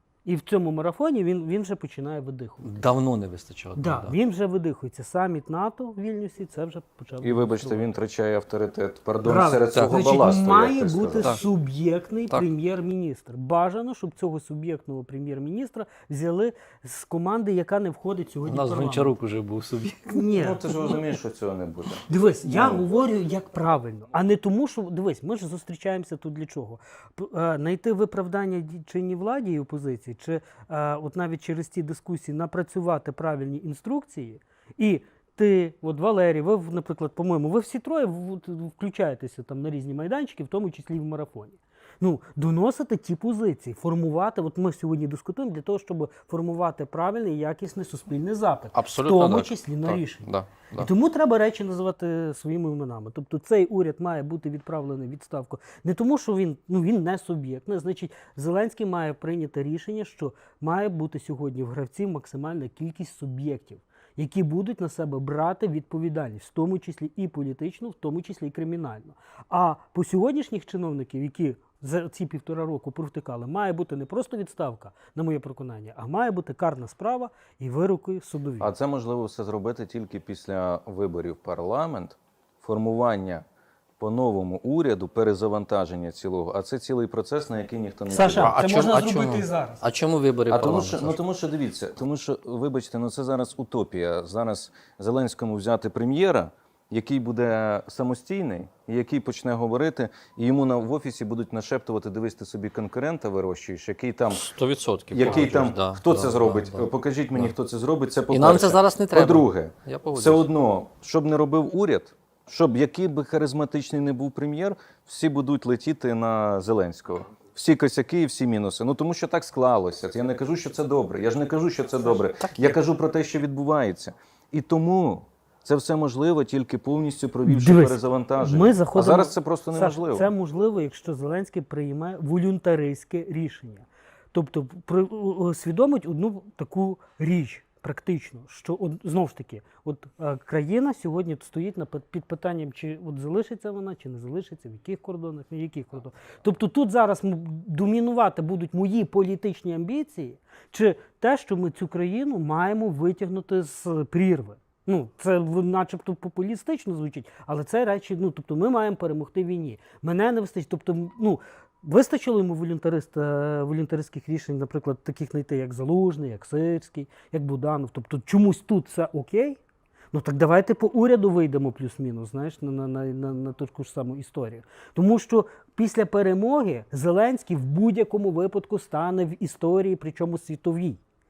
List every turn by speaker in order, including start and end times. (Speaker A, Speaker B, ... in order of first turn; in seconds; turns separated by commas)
Speaker A: 0.2-2.9, Speaker B: 2.6-4.1, Speaker A: 3.8-7.9, Speaker C: 7.2-11.4, Speaker A: 9.2-19.2, Speaker B: 9.7-10.1, Speaker B: 18.5-20.3, Speaker A: 20.1-21.0, Speaker C: 20.3-22.9, Speaker A: 22.1-78.7, Speaker B: 48.7-50.9, Speaker C: 78.6-83.4, Speaker C: 84.0-88.6, Speaker A: 88.1-89.8, Speaker B: 88.2-91.2, Speaker C: 90.5-104.5, Speaker B: 104.3-107.5, Speaker C: 105.1-130.3, Speaker B: 108.3-110.5, Speaker B: 122.1-122.8, Speaker A: 127.5-169.6, Speaker A: 170.1-181.0